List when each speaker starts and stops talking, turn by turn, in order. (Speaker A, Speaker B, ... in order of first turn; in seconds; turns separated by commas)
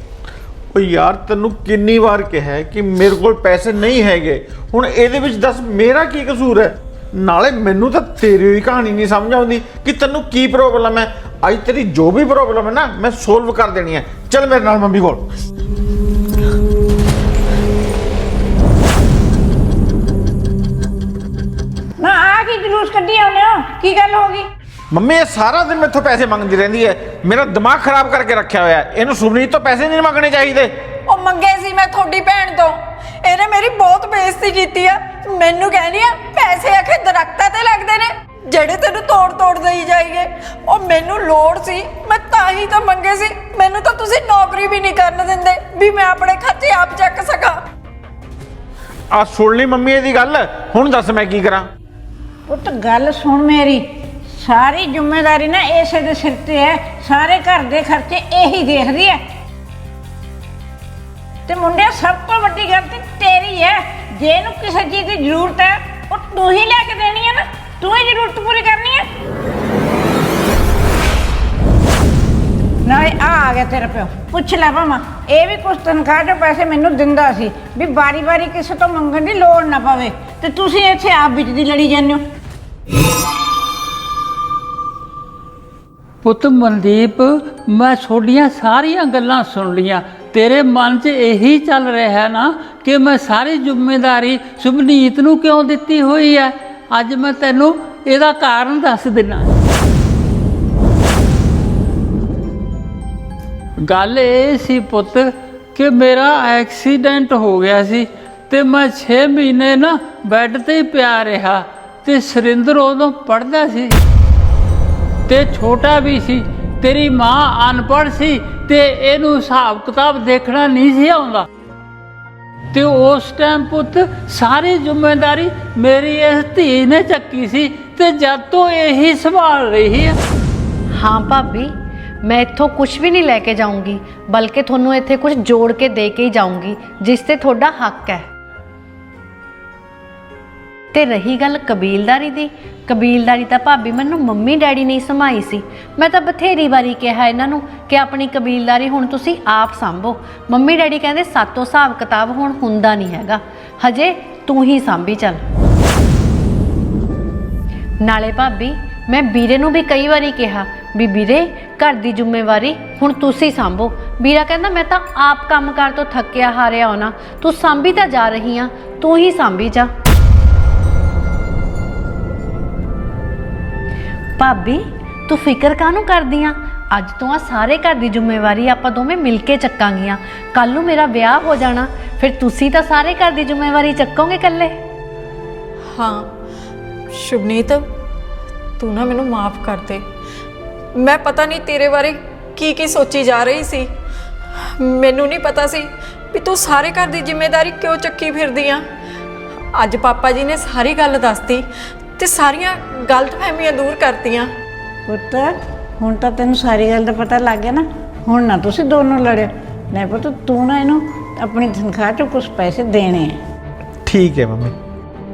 Speaker A: 0.7-15.2, Speaker B: 22.0-24.5, Speaker A: 24.9-30.7, Speaker C: 31.1-47.6, Speaker A: 49.1-51.7, Speaker B: 52.5-59.2, Speaker B: 61.5-69.1, Speaker B: 72.8-82.2, Speaker D: 86.2-99.5, Speaker D: 103.8-114.0, Speaker D: 115.3-121.5, Speaker D: 122.7-130.2, Speaker E: 130.9-138.2, Speaker E: 140.9-155.4, Speaker E: 158.0-169.9, Speaker E: 174.4-184.8, Speaker C: 185.9-186.3, Speaker C: 187.1-187.9, Speaker C: 188.8-190.0, Speaker C: 190.9-193.9, Speaker C: 194.6-198.8, Speaker C: 199.7-201.7, Speaker C: 202.2-204.5, Speaker B: 205.1-213.4, Speaker A: 214.1-214.7